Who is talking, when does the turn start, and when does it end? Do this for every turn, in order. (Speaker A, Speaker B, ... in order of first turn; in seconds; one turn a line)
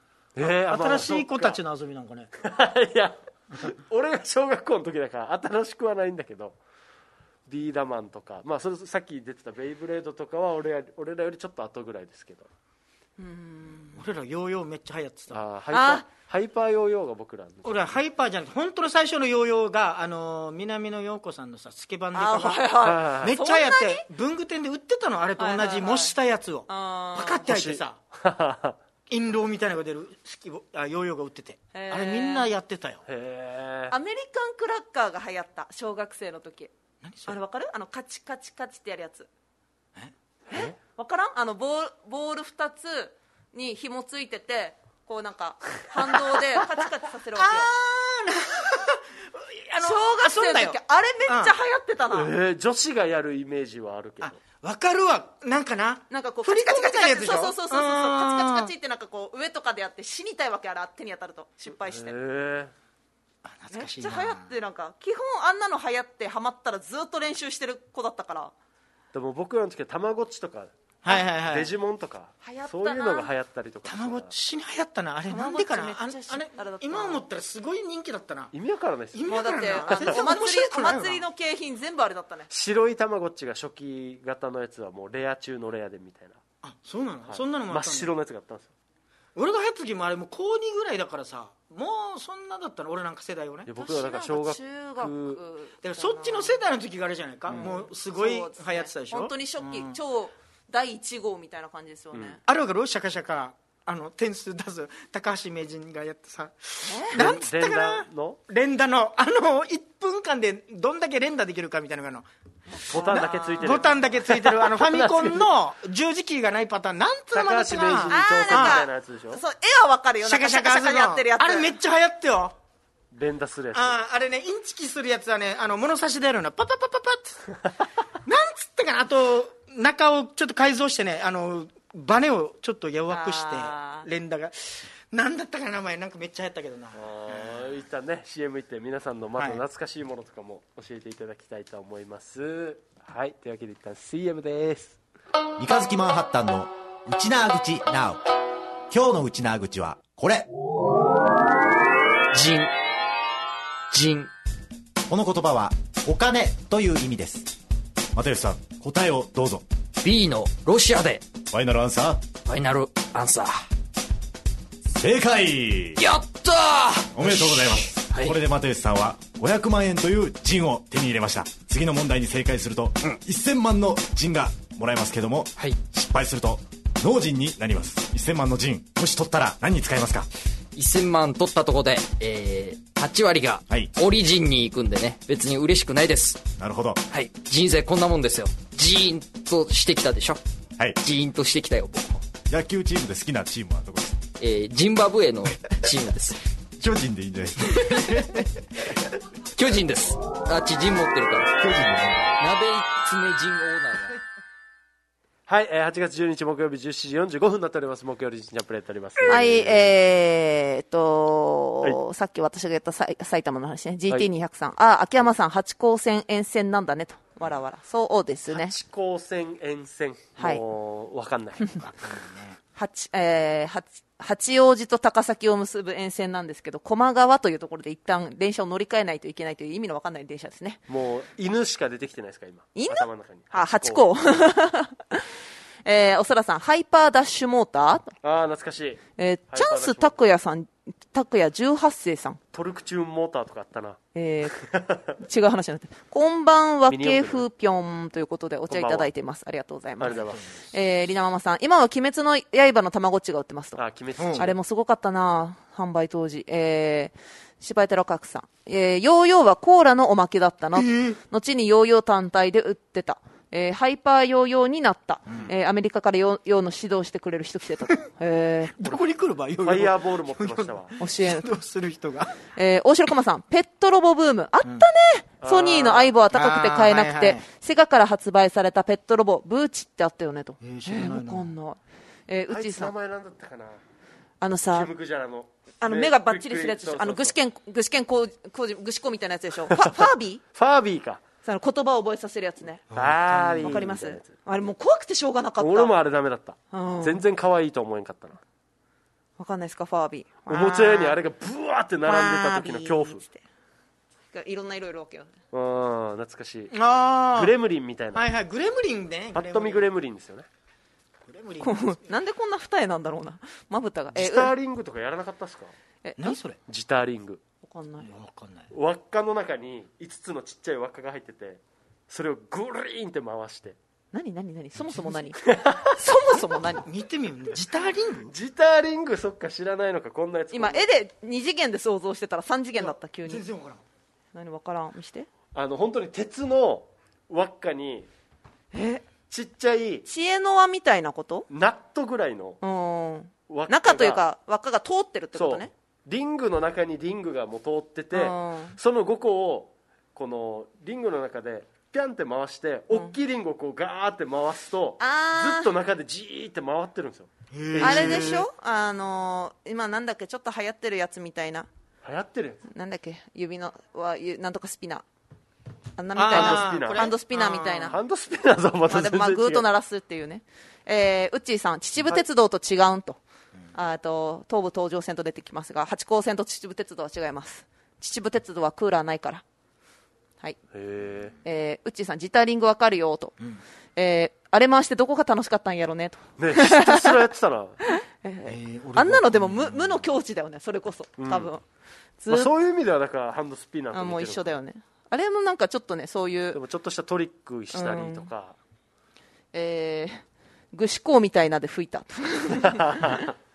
Speaker A: 0.4-1.6
Speaker B: 0.4-2.3
Speaker A: 2.4-6.6
Speaker A: 7.5-12.5
Speaker C: 13.2-14.0
Speaker B: 13.9-15.4
Speaker A: 15.3-18.0
Speaker C: 15.7-16.1
Speaker B: 17.6-28.0
Speaker C: 22.1-24.1
Speaker A: 22.8-23.4
Speaker C: 25.4-26.1
Speaker C: 26.7-27.5
Speaker A: 27.5-28.8
Speaker B: 29.1-33.0
Speaker C: 31.7-32.5
Speaker A: 33.1-34.0
Speaker C: 33.9-36.7
Speaker B: 37.0-37.4
Speaker C: 37.3-39.3
Speaker C: 40.5-47.7
Speaker B: 47.4-51.6
Speaker C: 49.8-52.3
Speaker A: 52.1-54.4
Speaker B: 54.2-58.7
Speaker C: 56.1-62.1
Speaker A: 61.8-62.7
Speaker B: 63.4-64.5
Speaker C: 63.7-68.5
Speaker A: 69.1-74.3
Speaker B: 71.0-71.7
Speaker C: 72.4-73.3
Speaker B: 73.8-78.5
Speaker C: 75.3-77.2
Speaker A: 78.5-80.2
Speaker B: 79.1-81.2
Speaker C: 79.3-82.5
Speaker A: 82.5-86.4
Speaker B: 86.6-88.1
Speaker A: 87.3-88.7
Speaker B: 89.3-93.7
Speaker A: 93.7-95.4
Speaker C: 93.8-96.6
Speaker B: 95.8-100.0
Speaker C: 97.5-102.4
Speaker B: 102.5-112.3
Speaker C: 106.8-107.2
Speaker A: 107.1-108.4
Speaker C: 112.7-114.0
Speaker B: 112.9-118.8
Speaker A: 112.9-115.5
Speaker A: 117.3-119.4
Speaker C: 118.1-121.8
Speaker B: 120.2-122.6
Speaker A: 123.1-124.0
Speaker B: 123.7-127.5
Speaker B: 128.2-137.8
Speaker C: 133.1-134.1
Speaker A: 136.9-145.0
Speaker B: 139.4-139.6
Speaker D: 145.6-148.2
Speaker D: 148.9-150.5
Speaker E: 152.3-152.7
Speaker E: 153.9-154.3
Speaker D: 155.1-157.5
Speaker D: 158.2-159.7
Speaker E: 160.0-161.3
Speaker D: 161.5-162.3
Speaker E: 162.4-163.6
Speaker D: 164.9-166.0
Speaker E: 166.0-168.4
Speaker D: 167.2-180.3
Speaker E: 180.8-186.5
Speaker D: 183.7-183.9
Speaker D: 186.6-187.0
Speaker E: 187.1-190.4
Speaker E: 191.0-192.2
Speaker D: 192.5-194.2
Speaker E: 194.4-196.4
Speaker D: 196.8-198.5
Speaker E: 197.7-198.4
Speaker E: 199.6-201.5
Speaker D: 201.6-202.4
Speaker E: 202.4-204.2
Speaker A: 205.5-209.9
Speaker C: 209.3-218.8
Speaker A: 218.5-221.8
Speaker B: 221.7-222.6
Speaker C: 222.8-230.8
Speaker A: 230.9-234.4
Speaker C: 232.8-235.3
Speaker C: 235.8-238.1
Speaker A: 238.2-240.2
Speaker C: 239.2-242.4
Speaker A: 242.5-244.0
Speaker C: 244.2-244.6
Speaker A: 244.5-245.1
Speaker C: 245.2-253.8
Speaker A: 246.9-247.4
Speaker A: 248.7-249.1
Speaker A: 250.0-250.4
Speaker B: 250.1-250.8
Speaker A: 253.8-254.6
Speaker B: 254.2-254.5
Speaker C: 254.3-268.9
Speaker B: 260.8-261.2
Speaker B: 268.7-272.4
Speaker A: 269.6-271.0
Speaker C: 271.0-271.5
Speaker C: 272.6-282.9
Speaker A: 275.4-276.1
Speaker B: 276.3-277.5
Speaker B: 280.6-281.5
Speaker A: 282.5-283.8
Speaker C: 284.4-284.9
Speaker A: 284.7-287.4
Speaker C: 285.8-290.4
Speaker A: 289.7-289.9
Speaker A: 290.6-291.2
Speaker C: 291.4-292.8
Speaker B: 292.9-293.9
Speaker A: 292.9-294.3
Speaker C: 293.6-295.9
Speaker A: 295.6-298.4
Speaker C: 296.7-297.2
Speaker C: 299.4-301.2
Speaker A: 300.5-303.2
Speaker C: 302.1-303.4
Speaker C: 304.3-305.3
Speaker A: 305.5-306.8
Speaker B: 306.7-307.6
Speaker A: 307.3-308.3
Speaker B: 308.1-309.9
Speaker A: 309.4-310.5
Speaker B: 311.2-312.2
Speaker C: 311.6-314.5
Speaker A: 314.1-315.7
Speaker C: 316.0-316.4
Speaker B: 316.2-316.6
Speaker A: 316.7-317.4
Speaker C: 317.6-318.1
Speaker B: 318.0-318.7
Speaker A: 318.7-323.8
Speaker C: 324.1-325.4
Speaker B: 324.8-325.3
Speaker A: 325.4-325.9
Speaker C: 325.9-326.9
Speaker B: 326.8-328.3
Speaker A: 328.3-330.9
Speaker C: 330.5-333.4
Speaker B: 332.8-333.8
Speaker C: 334.3-335.3
Speaker A: 335.5-338.1
Speaker C: 338.7-339.1
Speaker A: 339.3-340.1
Speaker C: 340.1-341.5
Speaker A: 341.5-342.6
Speaker C: 342.6-345.7
Speaker A: 343.5-344.2
Speaker A: 345.3-358.5
Speaker C: 348.1-348.8
Speaker C: 355.0-355.7
Speaker B: 357.5-358.5
Speaker C: 357.8-361.7
Speaker A: 362.0-362.6
Speaker C: 362.7-365.1
Speaker C: 366.0-368.0
Speaker B: 366.2-368.0
Speaker A: 366.3-367.2
Speaker A: 367.9-369.6
Speaker C: 368.9-373.2
Speaker C: 373.7-379.4
Speaker A: 380.7-381.4
Speaker C: 381.4-383.4
Speaker C: 384.0-387.2
Speaker A: 386.4-387.8
Speaker C: 387.8-391.6
Speaker B: 388.4-390.1
Speaker A: 391.2-391.5
Speaker C: 392.2-392.5
Speaker A: 392.3-394.6
Speaker C: 393.9-396.6
Speaker A: 396.5-398.6
Speaker C: 397.7-398.3
Speaker C: 399.5-403.3
Speaker A: 402.6-403.3